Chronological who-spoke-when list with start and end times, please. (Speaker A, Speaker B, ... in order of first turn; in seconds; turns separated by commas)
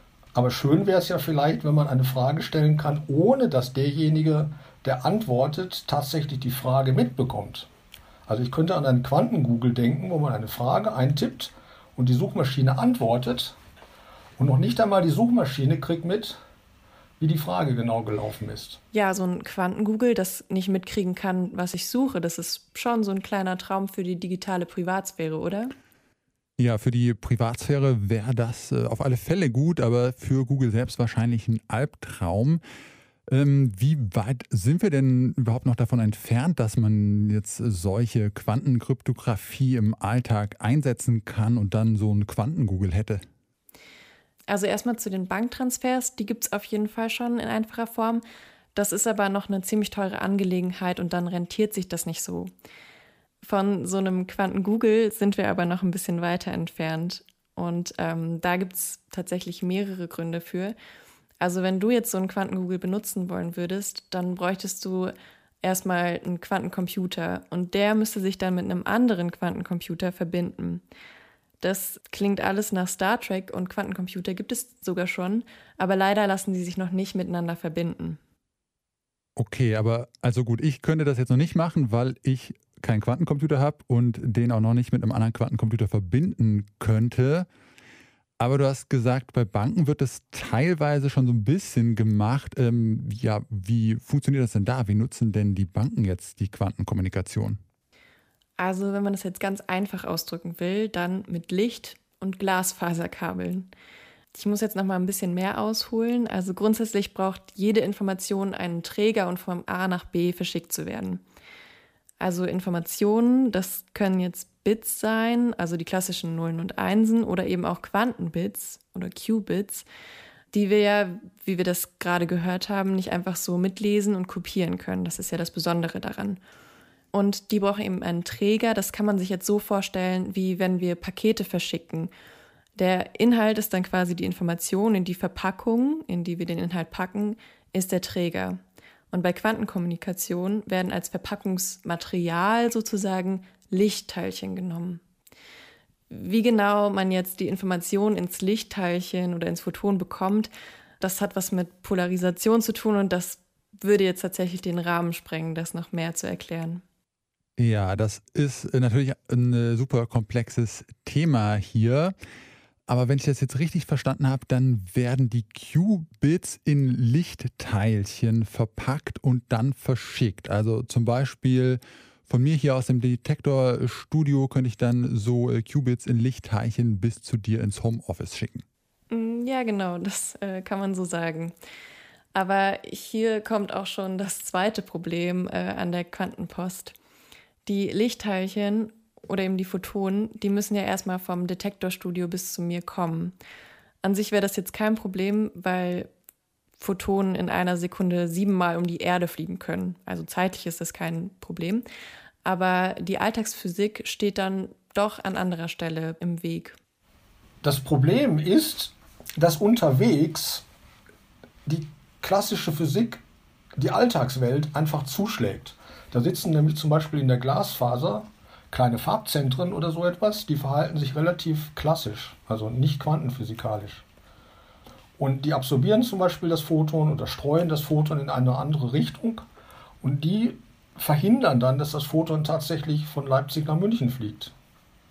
Speaker A: 0.3-7.7, Speaker A: 8.3-13.6, Speaker A: 14.4-16.4, Speaker A: 17.2-18.8, Speaker B: 18.9-25.7, Speaker C: 26.6-32.6, Speaker C: 33.3-43.2, Speaker B: 44.5-48.2, Speaker B: 48.7-52.5, Speaker B: 53.4-60.8, Speaker B: 61.4-70.8, Speaker B: 71.6-78.2, Speaker C: 79.3-87.5, Speaker C: 88.4-97.6, Speaker B: 98.6-103.7, Speaker B: 104.3-111.2, Speaker B: 112.2-119.9, Speaker B: 120.5-126.4, Speaker B: 127.1-132.1, Speaker B: 132.8-138.6, Speaker B: 139.1-145.0, Speaker B: 146.1-156.8, Speaker C: 157.6-162.1, Speaker C: 162.9-178.6, Speaker B: 179.1-181.5, Speaker B: 182.3-186.9, Speaker B: 187.6-193.3, Speaker B: 194.0-196.1, Speaker B: 196.8-201.8, Speaker B: 202.4-206.8, Speaker A: 207.6-210.7, Speaker A: 211.7-213.2, Speaker A: 213.8-224.0, Speaker A: 225.2-229.4, Speaker A: 230.0-234.5